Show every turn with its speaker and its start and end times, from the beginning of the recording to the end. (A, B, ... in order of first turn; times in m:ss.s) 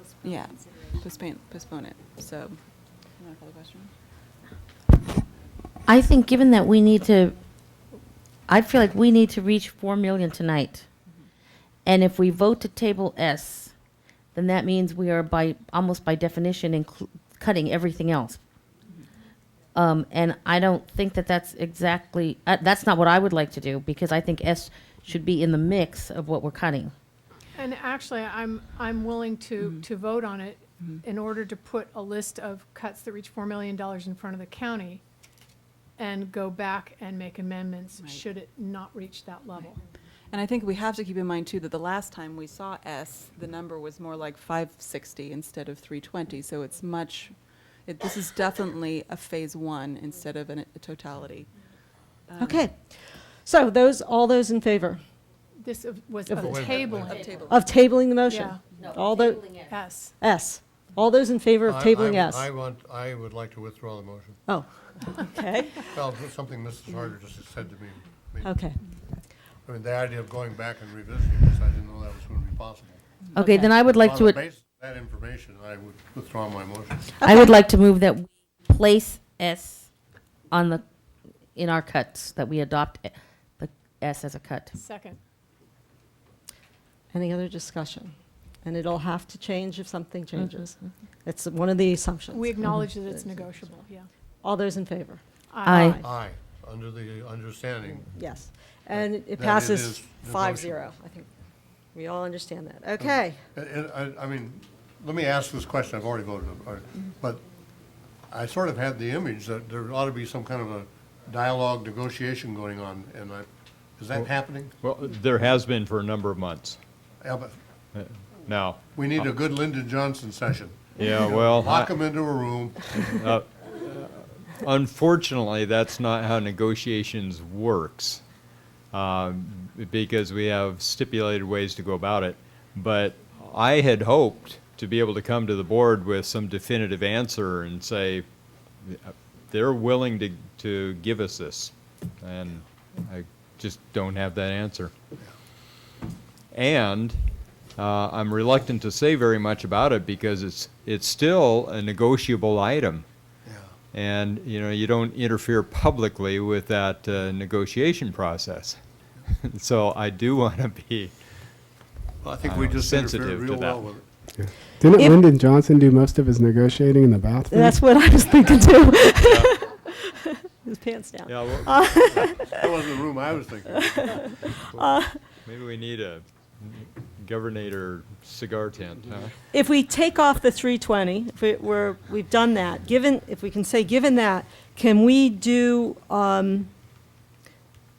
0:00.2-0:02.6 A
0:03.1-0:03.9 A
0:05.8-0:07.9 B
0:08.5-0:10.9 B
0:11.8-0:13.8 B
0:14.3-0:18.4 B
0:19.7-0:26.9 B
0:27.5-0:35.0 C
0:36.0-0:39.8 C
0:40.3-0:51.5 A
0:52.3-0:52.7 A
0:52.4-0:55.0 D
0:55.6-0:57.2 C
0:56.3-0:56.6 D
0:56.4-0:57.3 E
0:57.2-0:57.6 A
0:57.3-0:59.6 D
0:58.2-0:58.8 C
0:59.2-0:59.6 B
0:59.6-1:00.2 C
1:00.2-1:02.5 D
1:01.6-1:04.4 E
1:04.5-1:06.0 D
1:05.9-1:08.6 E
1:08.4-1:08.8 D
1:09.6-1:13.0 E
1:13.3-1:14.4 B
1:13.4-1:13.7 D
1:13.9-1:17.1 E
1:17.2-1:17.5 D
1:17.2-1:19.9 B
1:20.5-1:20.8 B
1:21.5-1:24.7 B
1:24.7-1:25.2 C
1:27.1-1:33.6 D
1:32.3-1:34.1 C
1:34.4-1:36.1 D
1:35.5-1:35.9 C
1:35.6-1:36.0 B
1:36.0-1:38.1 E
1:38.0-1:41.3 D
1:38.9-1:40.9 E
1:41.9-1:43.4 D
1:43.0-1:47.4 E
1:48.3-1:54.7 E
1:54.8-1:56.8 F
1:57.2-1:57.6 E
1:57.9-1:59.3 F
1:58.9-2:02.9 E
2:01.0-2:02.0 F
2:02.9-2:08.2 F
2:08.9-2:18.3 F
2:18.8-2:24.9 F
2:26.5-2:27.2 F
2:27.8-2:33.1 F
2:33.4-2:33.7 E
2:33.9-2:41.2 F
2:42.2-2:44.0 E
2:42.4-2:43.9 F
2:44.3-2:47.8 G
2:47.5-2:52.8 D
2:49.2-2:49.5 F
2:51.2-2:52.3 F
2:52.2-2:54.2 E
2:53.9-2:55.2 D
2:55.4-2:59.4 F
2:59.5-3:06.7 D